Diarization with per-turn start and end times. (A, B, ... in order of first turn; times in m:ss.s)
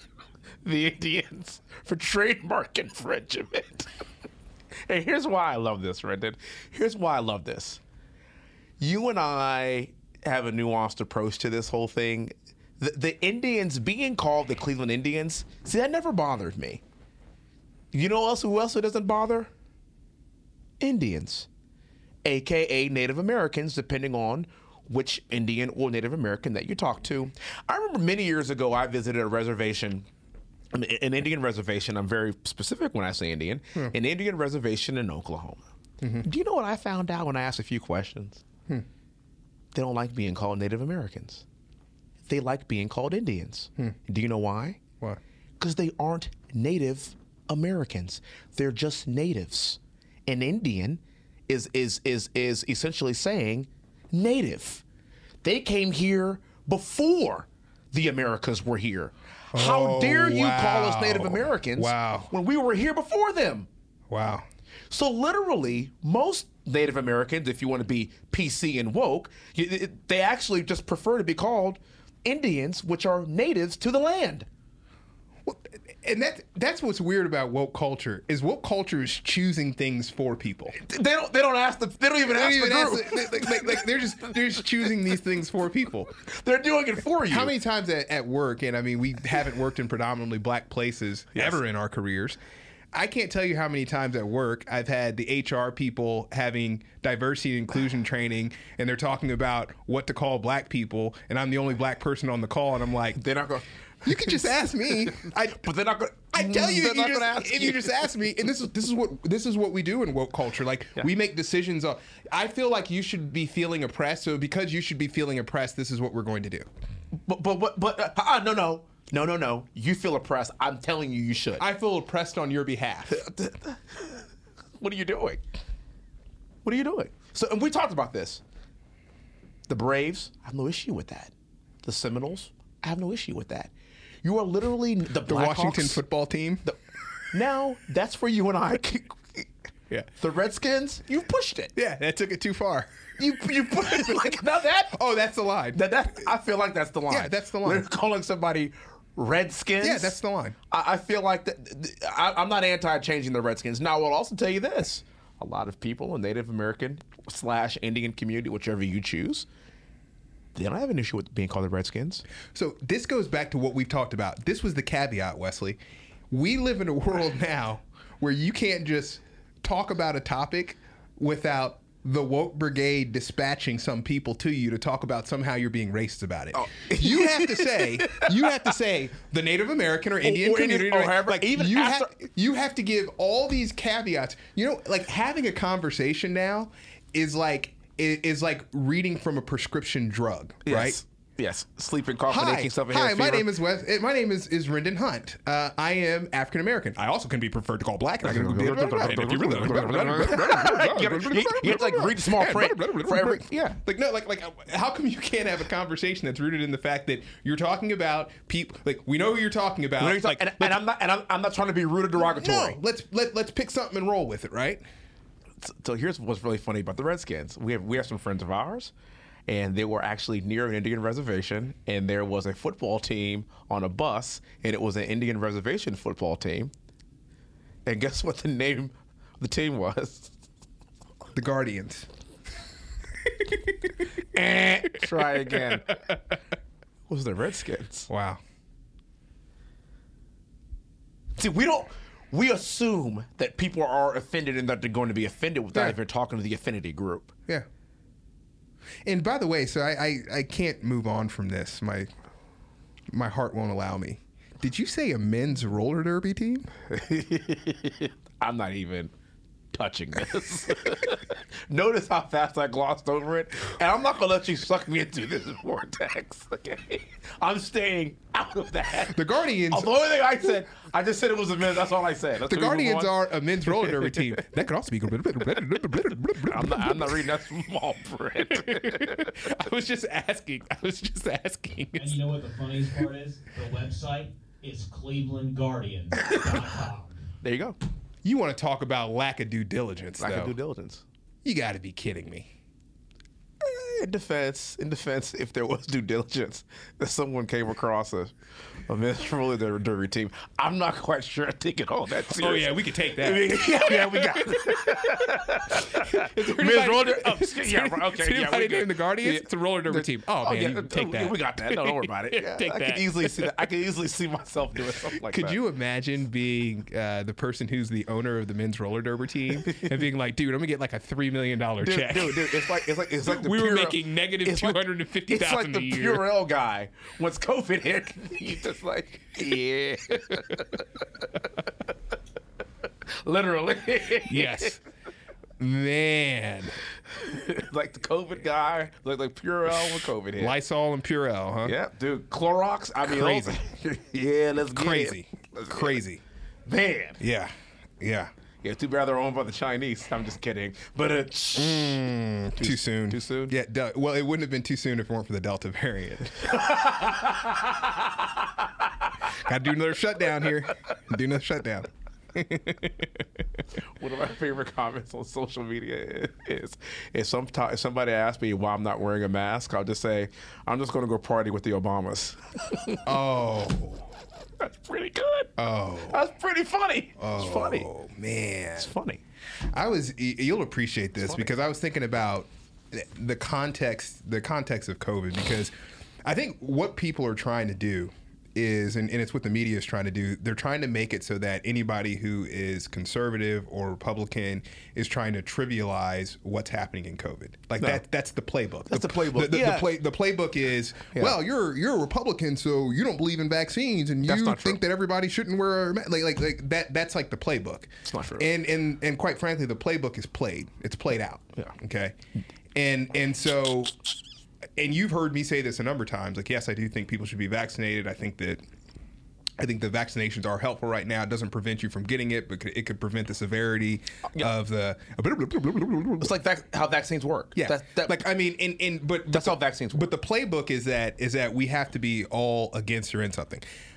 0:00.6-0:04.0 A
0:04.9-0:07.8 A
0:08.8-0:16.8 A
0:17.9-0:19.5 A
0:20.8-0:21.5 A
0:22.2-0:30.1 A
0:30.7-0:35.7 A
0:36.2-0:38.4 A
0:39.7-0:41.4 A
0:42.3-0:44.8 A
0:45.6-0:54.8 A
0:55.4-1:03.7 A
0:59.5-1:02.3 B
1:04.1-1:04.5 B
1:04.9-1:14.5 A
1:15.4-1:20.8 B
1:20.7-1:23.9 A
1:22.3-1:26.1 B
1:26.3-1:27.5 A
1:27.3-1:32.4 B
1:32.9-1:43.2 B
1:43.2-1:48.1 A
1:44.0-1:45.7 B
1:46.3-1:56.7 B
1:57.3-2:01.7 A
2:01.6-2:03.2 B
2:03.1-2:05.4 A
2:06.6-2:08.4 A
2:09.7-2:13.7 A
2:14.2-2:16.0 A
2:15.3-2:16.6 B
2:17.3-2:19.5 A
2:20.2-2:21.7 A
2:21.8-2:24.4 B
2:23.2-2:25.0 A
2:24.9-2:26.3 B
2:25.7-2:30.2 A
2:27.1-2:27.9 B
2:29.8-2:30.6 B
2:30.7-2:39.5 A
2:40.6-2:42.2 A
2:42.5-2:45.8 B
2:46.3-3:11.0 B
2:56.5-2:58.5 A
3:00.2-3:02.1 A
3:10.6-3:13.5 A
3:12.3-3:30.8 B
3:18.2-3:23.8 A
3:30.0-3:32.8 A
3:32.2-3:34.8 B
3:35.6-3:38.9 A
3:39.5-3:46.7 A
3:47.9-3:50.3 A
3:51.3-3:52.1 B
3:54.3-3:56.0 A
3:57.1-3:58.1 A
3:58.1-3:58.4 B
4:01.4-4:07.3 A
4:09.0-4:12.1 B
4:13.1-4:16.7 B
4:16.9-4:19.1 A
4:19.7-4:34.3 A
4:29.1-4:29.9 B
4:32.5-4:37.3 B
4:36.4-4:39.5 A
4:38.5-4:42.2 B
4:42.0-4:47.2 C
4:46.2-4:46.6 A
4:47.4-4:47.8 A
4:48.2-4:50.6 B
4:50.2-4:51.0 A
4:51.4-4:52.5 B
4:53.6-4:58.4 A
4:58.9-5:15.6 A
5:02.4-5:13.5 B
5:15.3-5:26.2 B
5:19.6-5:19.9 A
5:21.8-5:31.6 A
5:33.1-5:34.8 A
5:34.2-5:34.8 B
5:35.6-5:36.8 B
5:37.1-5:40.6 A
5:40.4-5:41.7 B
5:41.6-5:46.0 A
5:43.0-5:43.6 B
5:44.7-5:46.2 B
5:46.7-5:47.2 A
5:47.2-5:48.3 B
5:48.6-5:52.0 A
5:51.6-5:56.7 B
5:52.6-5:53.6 A
5:56.5-5:58.0 A
5:59.3-6:03.2 B
6:04.0-6:13.2 A
6:13.1-6:14.1 B
6:14.6-6:15.5 A
6:15.6-6:16.2 B
6:16.1-6:17.9 A
6:17.2-6:18.9 B
6:18.8-6:19.2 A
6:19.7-6:25.7 B
6:26.2-6:52.2 B
6:38.9-6:39.9 A
6:44.2-6:44.8 A
6:48.1-6:48.5 A
6:52.8-6:54.0 B
6:54.8-6:58.6 B
6:59.6-7:06.3 B
7:06.2-7:08.2 A
7:07.6-7:13.6 B
7:09.3-7:10.1 A